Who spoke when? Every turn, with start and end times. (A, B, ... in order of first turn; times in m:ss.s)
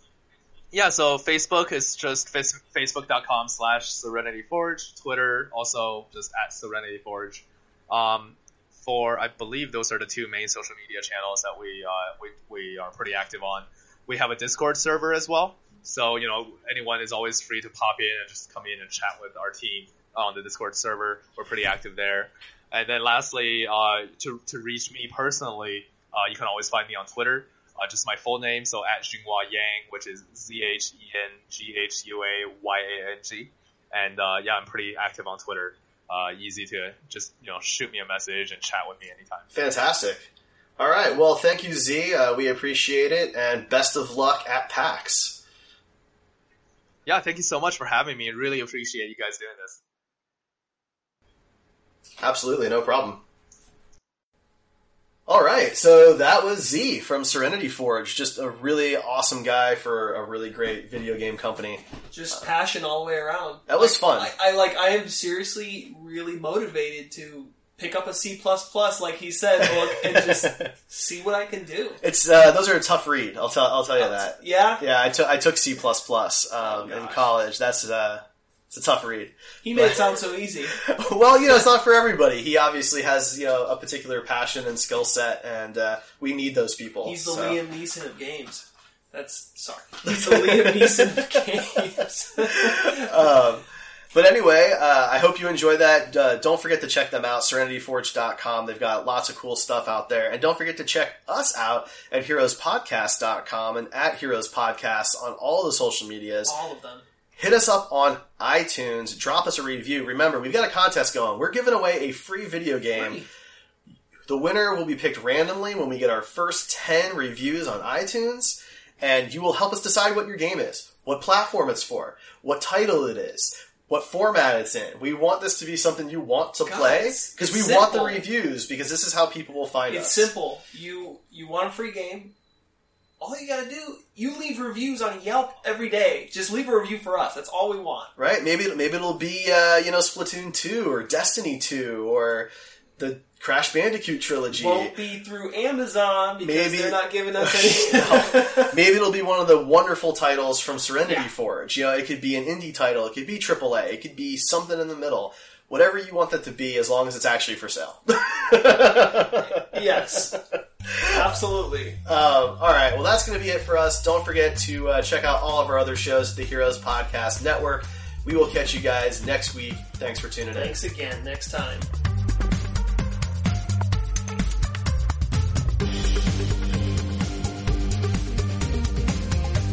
0:00.7-0:39.5 A
0:39.5-0:45.4 B
0:47.0-0:49.8 A
0:52.2-0:53.2 B
0:55.3-1:01.8 B
1:02.1-1:12.0 C
1:03.7-1:04.3 B
1:09.6-1:10.7 B
1:12.0-1:27.6 B
1:14.0-1:14.8 C
1:16.6-1:17.2 C
1:19.6-1:20.8 C
1:27.0-1:33.1 C
1:30.0-1:31.8 B
1:32.5-1:46.6 B
1:46.4-1:47.0 C
1:47.4-1:53.2 B
1:52.9-1:53.3 C
1:54.3-2:10.3 B
2:06.6-2:08.2 C
2:09.9-2:12.3 C
2:13.2-2:18.1 C
2:18.2-2:24.9 B
2:24.5-2:28.7 C
2:26.4-2:41.2 B
2:39.7-2:40.4 C
2:41.1-2:42.0 C
2:42.0-2:50.8 B
2:50.5-2:51.9 C